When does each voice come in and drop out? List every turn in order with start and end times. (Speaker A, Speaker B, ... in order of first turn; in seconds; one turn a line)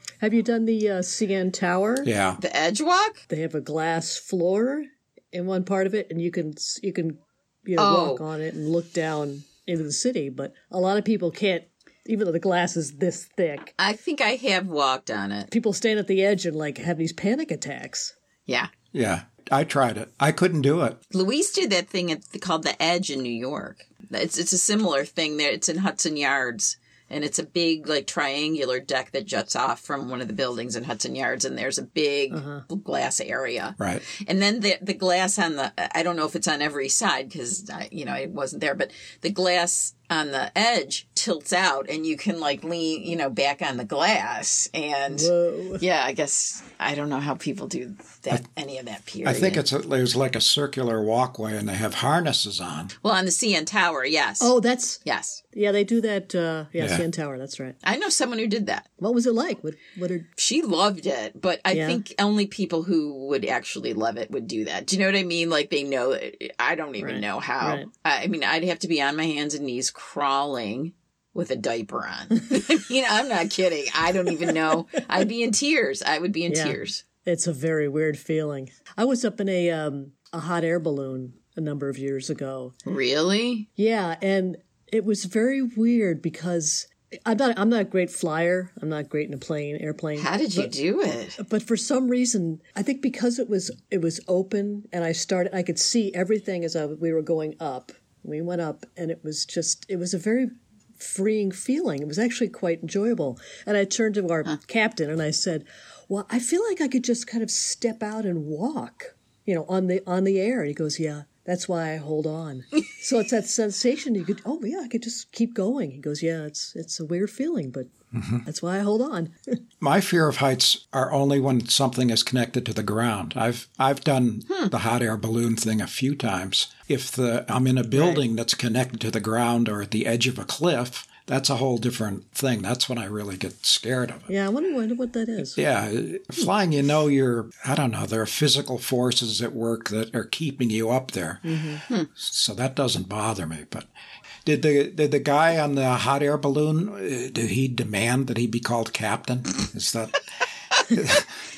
Speaker A: 0.2-2.1
Speaker B: 2.0-2.4
Speaker C: 2.4-3.2
Speaker A: 3.3-13.7
Speaker C: 7.8-8.2
Speaker C: 13.8-15.5
Speaker A: 15.5-18.1
Speaker B: 18.9-21.0
Speaker C: 21.1-49.6
Speaker A: 32.3-32.6
Speaker A: 45.1-45.8
Speaker B: 49.2-52.9
Speaker C: 53.0-54.5
Speaker A: 54.4-57.8
Speaker C: 55.0-55.4
Speaker B: 56.8-57.0
Speaker C: 57.8-58.9
Speaker A: 59.0-60.3
Speaker C: 60.4-77.0
Speaker A: 61.7-62.0
Speaker A: 67.0-67.9
Speaker A: 76.5-82.7
Speaker C: 82.8-83.7
Speaker A: 83.8-90.7
Speaker C: 90.2-91.4
Speaker A: 91.4-117.9
Speaker B: 118.1-118.4
Speaker A: 118.5-119.6
Speaker B: 119.8-134.3
Speaker A: 127.9-128.2
Speaker A: 134.3-135.6
Speaker B: 135.6-143.9
Speaker A: 141.4-141.8
Speaker B: 144.4-150.2
Speaker B: 150.9-151.3